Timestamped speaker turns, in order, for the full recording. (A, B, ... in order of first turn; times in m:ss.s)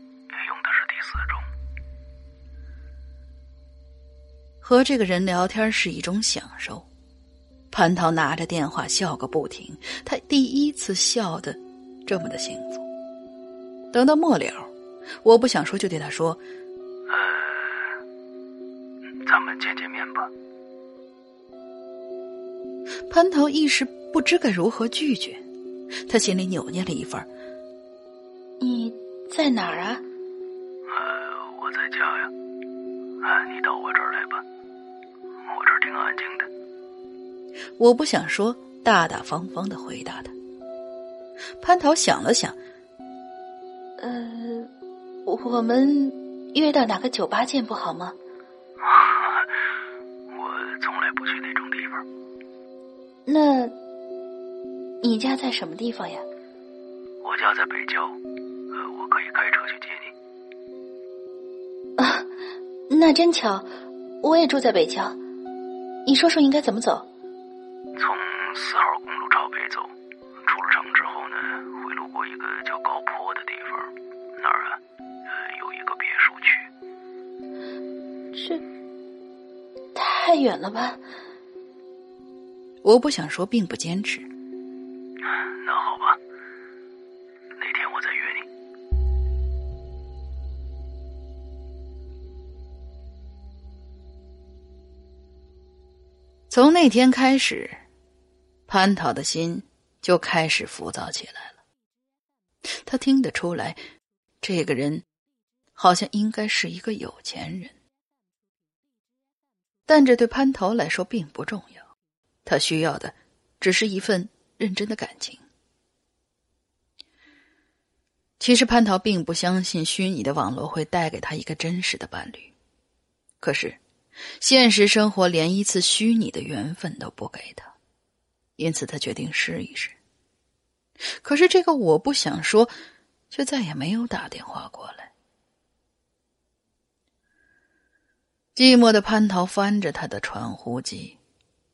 0:00.3-0:01.5 A
0:04.6-0:06.9 B
0:07.7-0:12.9 B
0:13.9-0:14.7 B
0:15.2-0:16.4 B
0:17.1-0:17.9 A
0:19.2-0:20.3 A
0:23.1-0:25.4 B
0:26.1-0:27.3 B
0:28.6-0:30.0 C
0:30.9-0:32.3 A
0:33.2-0:34.4 A
0:35.5-0:36.5 A
0:37.8-0:40.4 B
0:41.6-0:42.6 B
0:44.0-0:44.7 C
0:45.2-0:48.2 C
0:48.9-0:49.4 A
0:50.3-0:52.0 A
0:53.3-0:53.8 C
0:55.0-0:56.2 C
0:57.2-0:58.2 A
0:58.7-1:00.1 A
1:02.0-1:02.3 C
1:02.9-1:03.7 C
1:04.2-1:05.2 C
1:06.0-1:07.1 C
1:08.0-1:09.9 A
1:10.4-1:16.7 A
1:18.3-1:18.6 C
1:19.9-1:21.0 C
1:22.8-1:24.3 B
1:25.6-1:26.2 A
1:27.6-1:28.5 A
1:36.5-1:37.8 B
1:38.7-1:41.6 B
1:42.6-1:43.8 B
1:44.4-1:45.0 B
1:45.8-1:47.8 B
1:49.9-1:51.9 B
1:52.5-1:55.4 B
1:58.4-2:02.5 B
2:03.4-2:03.8 B
2:04.4-2:07.7 B
2:08.6-2:10.0 B
2:11.2-2:12.7 B
2:13.3-2:15.1 B
2:18.6-2:21.2 B